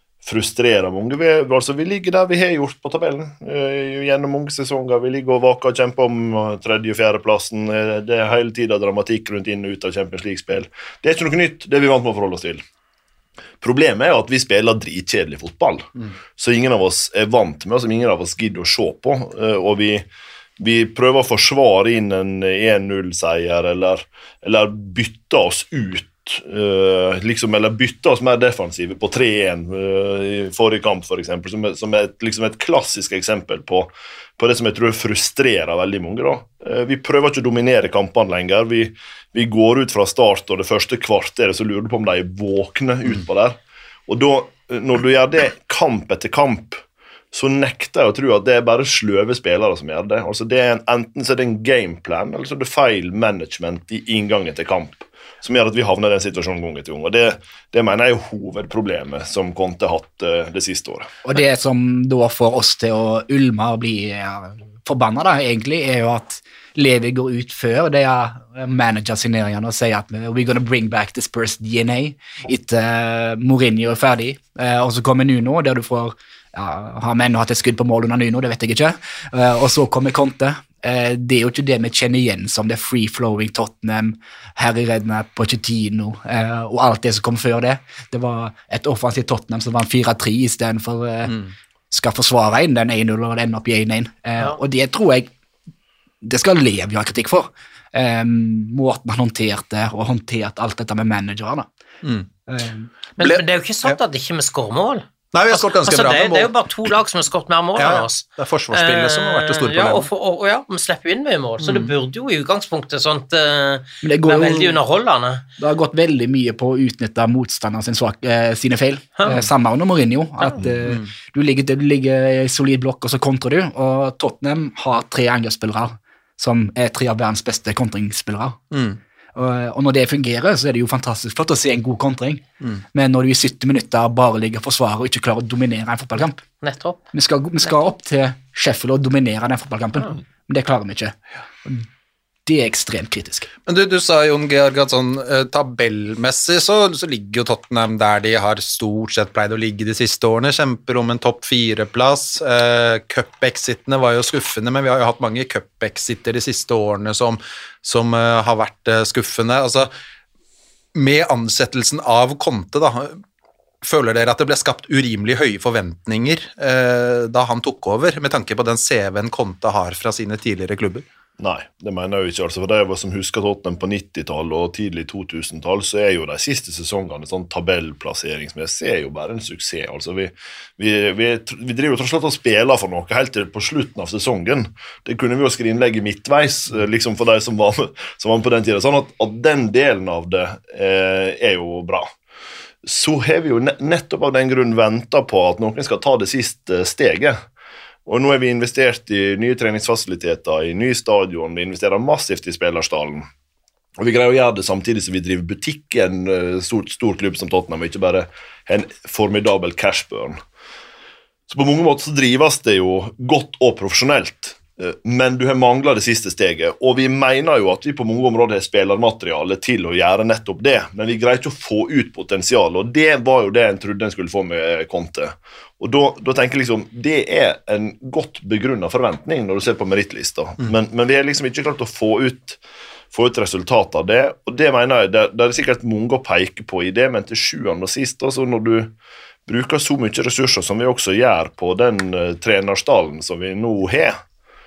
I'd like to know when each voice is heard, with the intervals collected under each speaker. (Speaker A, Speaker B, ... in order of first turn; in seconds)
Speaker A: 0.2-12.6, 13.6-20.1, 20.6-61.1, 171.4-192.1, 192.8-197.4, 198.1-203.3, 204.0-210.4, 211.5-232.6, 233.1-238.9, 239.4-244.2
Speaker B: 61.2-91.4, 91.9-95.3, 96.2-101.7, 102.5-102.9, 114.0-114.8, 115.6-128.6, 129.3-136.4, 137.1-141.8, 142.4-143.5
Speaker C: 103.2-115.4, 136.6-137.0
Speaker D: 103.2-104.0, 105.3-106.5, 107.8-110.1, 111.6-111.9, 128.7-129.0, 143.7-159.9, 160.9-163.2, 163.8-171.1